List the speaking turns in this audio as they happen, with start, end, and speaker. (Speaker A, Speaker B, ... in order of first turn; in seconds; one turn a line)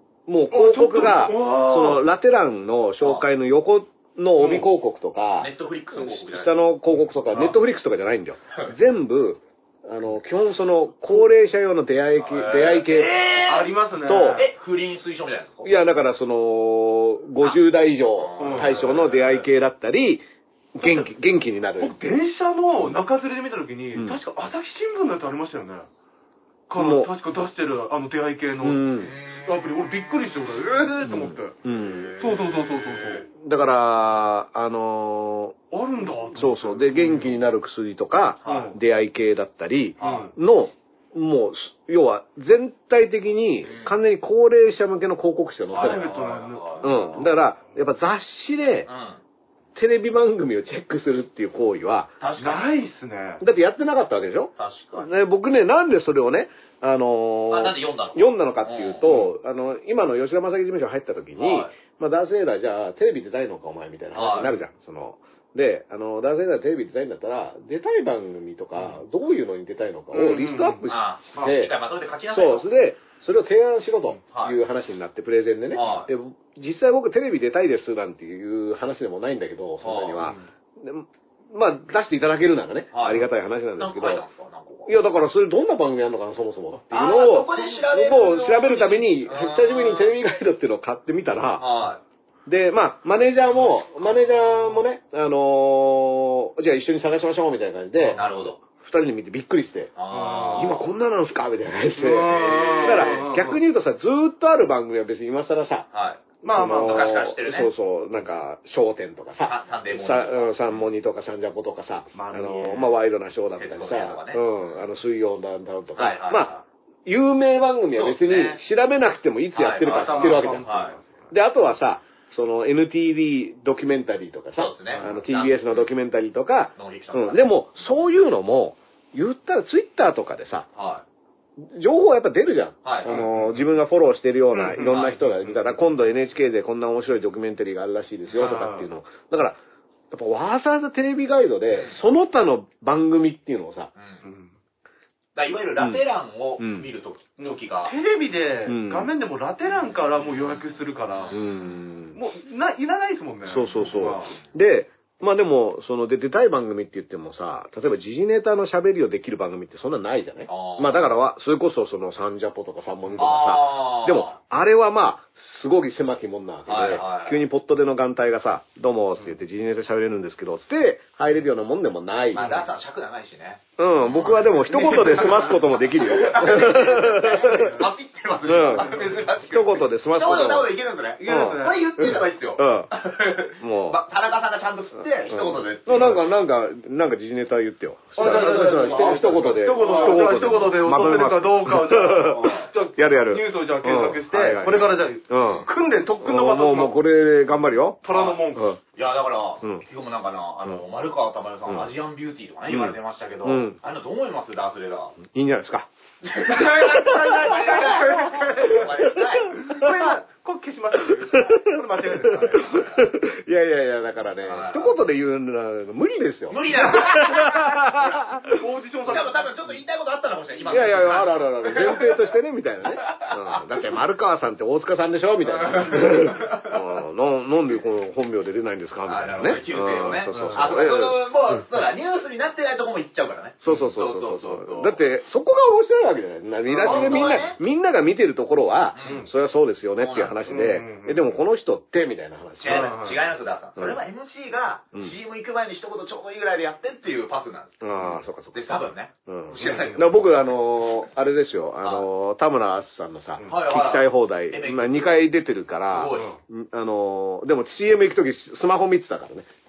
Speaker A: 0.3-13.2
Speaker B: 0.5-2.0
Speaker B: 4.4-4.7
Speaker C: 5.4-6.5
Speaker C: 12.2-13.8
Speaker B: 13.4-14.5
Speaker A: 14.0-14.5
Speaker C: 14.3-15.7
Speaker A: 15.6-22.0
Speaker C: 18.1-19.5
Speaker B: 18.4-18.9
Speaker B: 20.8-21.1
Speaker B: 21.8-25.9
Speaker A: 23.9-24.2
Speaker B: 26.7-31.6
Speaker A: 26.8-27.1
Speaker A: 28.6-29.1
Speaker C: 29.0-29.9
Speaker A: 31.1-32.2
Speaker C: 31.7-33.2
Speaker B: 32.2-33.2
Speaker A: 33.3-35.6
Speaker B: 35.7-37.5
Speaker A: 36.3-46.1
Speaker C: 38.4-38.8
Speaker B: 38.5-38.8
Speaker C: 40.0-40.3
Speaker B: 40.0-40.3
Speaker C: 43.6-44.0
Speaker C: 45.7-47.2
Speaker B: 45.8-47.3
Speaker A: 46.8-48.9
Speaker C: 48.9-49.2
Speaker A: 49.8-52.1
Speaker C: 52.2-52.7
Speaker B: 52.4-53.4
Speaker A: 53.4-71.8
Speaker C: 54.6-55.1
Speaker C: 57.5-59.3
Speaker C: 61.4-61.7
Speaker C: 64.1-64.6
Speaker B: 70.1-70.8
Speaker C: 70.9-72.7
Speaker A: 72.3-84.2
Speaker C: 74.3-74.6
Speaker C: 75.7-76.1
Speaker C: 79.8-80.2
Speaker B: 80.2-80.4
Speaker C: 82.9-83.3
Speaker C: 83.8-85.0
Speaker A: 84.9-91.7
Speaker C: 86.9-90.2
Speaker C: 91.6-92.0
Speaker A: 92.5-99.9
Speaker B: 98.0-98.2
Speaker C: 98.1-98.6
Speaker C: 100.0-100.9
Speaker B: 100.1-100.8
Speaker A: 100.5-105.9
Speaker B: 102.0-103.6
Speaker C: 102.3-103.2
Speaker C: 105.9-107.7
Speaker B: 106.4-107.2
Speaker A: 106.5-116.5
Speaker C: 109.4-110.8
Speaker B: 112.1-113.0
Speaker C: 113.6-114.8
Speaker C: 116.0-116.6
Speaker A: 117.1-120.7
Speaker C: 118.0-118.6
Speaker C: 119.5-121.0
Speaker B: 119.8-121.2
Speaker A: 121.3-130.7
Speaker C: 124.6-125.8
Speaker C: 126.8-127.5
Speaker C: 130.8-131.0
Speaker A: 131.6-139.6
Speaker C: 132.8-133.3
Speaker B: 133.1-133.4
Speaker B: 134.6-135.1
Speaker C: 134.8-135.2
Speaker B: 138.4-138.9
Speaker A: 140.1-143.9
Speaker C: 141.7-142.0
Speaker C: 143.9-144.2
Speaker B: 144.2-144.5
Speaker C: 145.3-147.9
Speaker A: 145.8-146.0
Speaker A: 146.6-146.9
Speaker B: 147.4-151.4
Speaker A: 148.7-149.1
Speaker C: 150.2-150.6
Speaker C: 151.1-151.8
Speaker A: 151.3-152.2
Speaker B: 152.1-154.4
Speaker A: 153.4-172.6
Speaker C: 160.5-161.1
Speaker C: 163.2-164.4
Speaker C: 166.7-167.4
Speaker C: 172.3-186.3
Speaker B: 172.4-172.6
Speaker A: 173.8-177.8
Speaker B: 174.7-175.6
Speaker A: 178.4-182.9
Speaker B: 181.2-182.0
Speaker A: 183.5-184.0
Speaker A: 185.3-195.7
Speaker B: 188.2-197.0
Speaker C: 188.2-190.2
Speaker C: 192.2-192.7
Speaker C: 195.3-195.7
Speaker A: 196.2-198.8
Speaker B: 198.0-198.8
Speaker C: 198.1-198.4
Speaker C: 198.9-205.2
Speaker A: 201.7-201.9
Speaker A: 202.7-203.8
Speaker A: 205.2-205.9
Speaker C: 206.2-209.8
Speaker A: 206.5-208.2
Speaker B: 206.9-208.9
Speaker A: 208.8-210.2
Speaker B: 209.5-212.9
Speaker A: 211.1-218.6
Speaker C: 212.6-213.0
Speaker C: 214.4-215.0
Speaker C: 216.5-218.4
Speaker B: 218.4-219.5
Speaker C: 219.1-222.3
Speaker A: 220.7-231.2
Speaker C: 223.0-223.6
Speaker C: 225.5-226.8
Speaker C: 229.1-235.0
Speaker B: 230.3-230.6
Speaker A: 233.6-243.0
Speaker C: 236.7-237.6
Speaker B: 236.7-237.4
Speaker C: 238.9-239.3
Speaker B: 239.0-239.3
Speaker C: 240.0-240.4
Speaker B: 240.4-241.3
Speaker C: 242.6-247.9
Speaker B: 242.6-243.3
Speaker A: 247.8-259.5
Speaker C: 248.5-250.3
Speaker B: 249.6-250.1
Speaker C: 253.4-255.2
Speaker C: 255.9-256.3